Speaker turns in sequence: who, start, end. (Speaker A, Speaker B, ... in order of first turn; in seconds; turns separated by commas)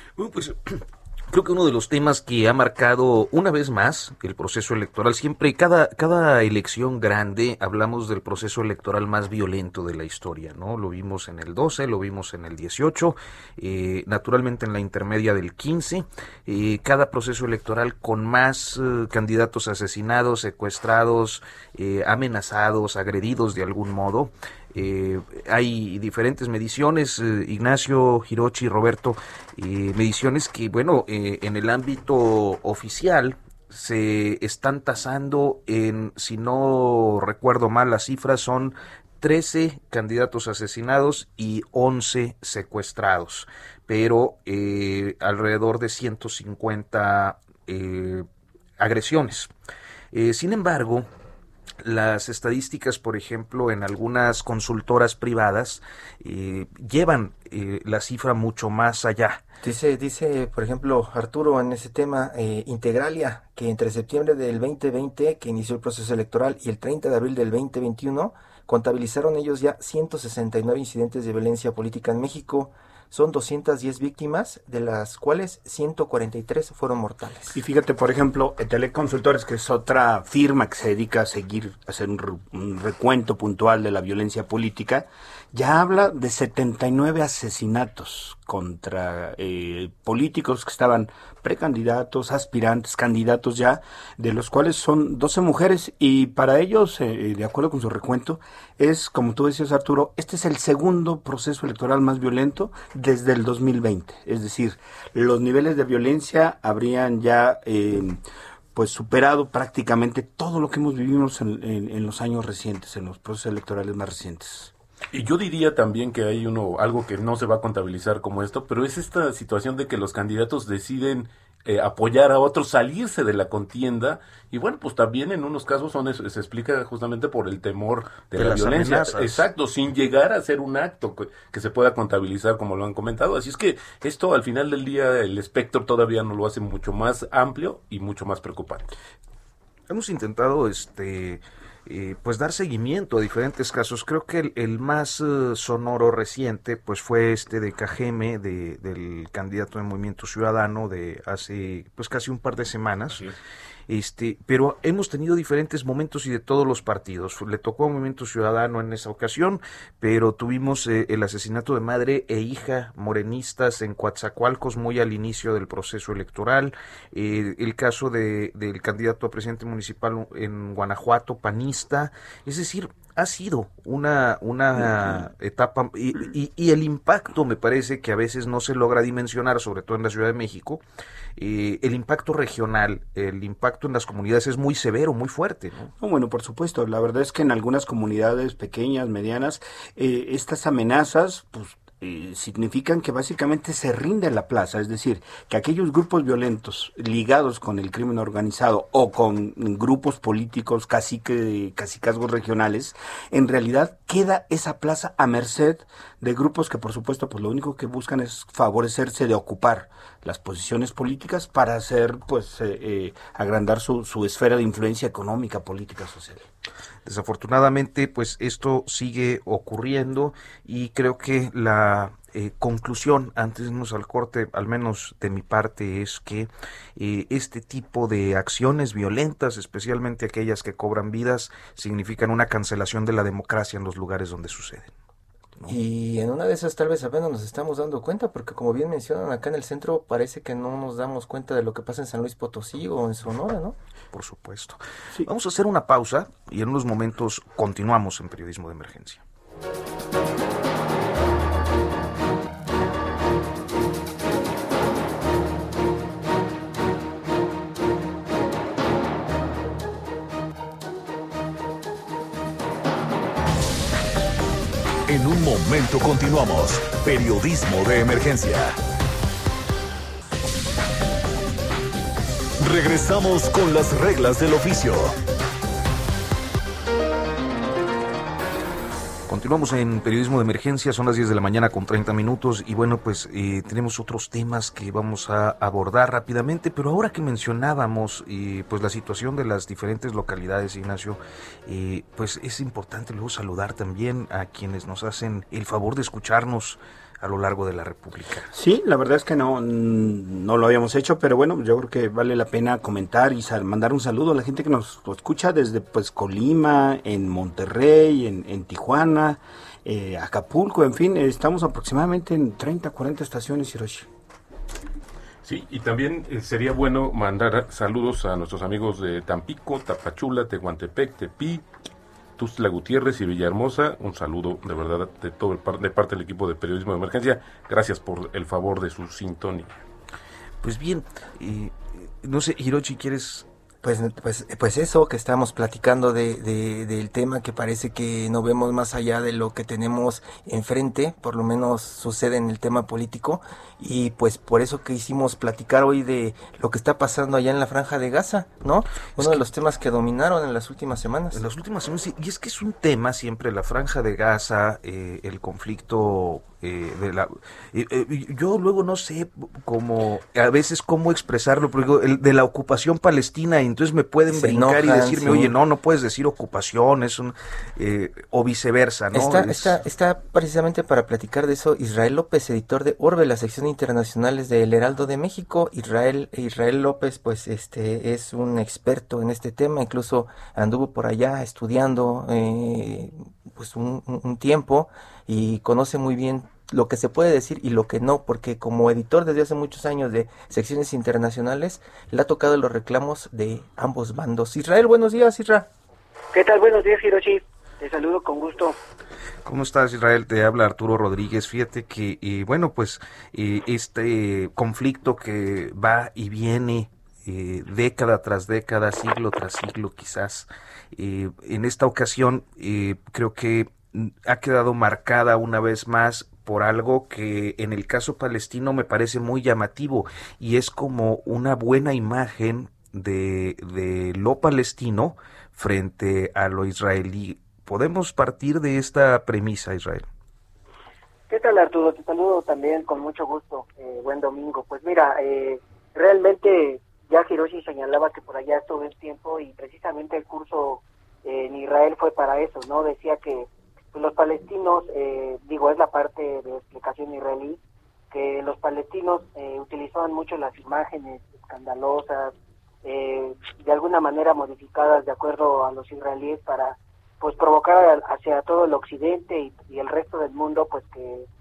Speaker A: 0.2-48.3, Speaker A: 48.8-49.5, Speaker A: 50.1-51.1, Speaker A: 51.8-59.4, Speaker B: 59.6-77.6, Speaker C: 77.5-108.2, Speaker C: 108.8-114.7, Speaker D: 115.1-138.9, Speaker A: 128.3-129.5, Speaker A: 139.9-153.3, Speaker A: 153.9-180.8, Speaker A: 181.4-185.9, Speaker C: 186.0-216.4, Speaker A: 217.1-234.9, Speaker B: 235.7-243.8, Speaker A: 244.1-249.2, Speaker E: 265.1-268.8, Speaker E: 272.6-275.1, Speaker A: 279.3-298.5, Speaker C: 298.5-314.1, Speaker D: 315.4-321.6, Speaker D: 322.4-329.8, Speaker A: 330.6-333.5, Speaker B: 333.8-351.4, Speaker A: 351.3-369.8, Speaker B: 364.3-365.5, Speaker B: 369.1-395.7, Speaker F: 396.3-398.8, Speaker A: 399.4-430.1, Speaker F: 431.3-447.6, Speaker F: 448.1-452.3, Speaker F: 452.8-461.3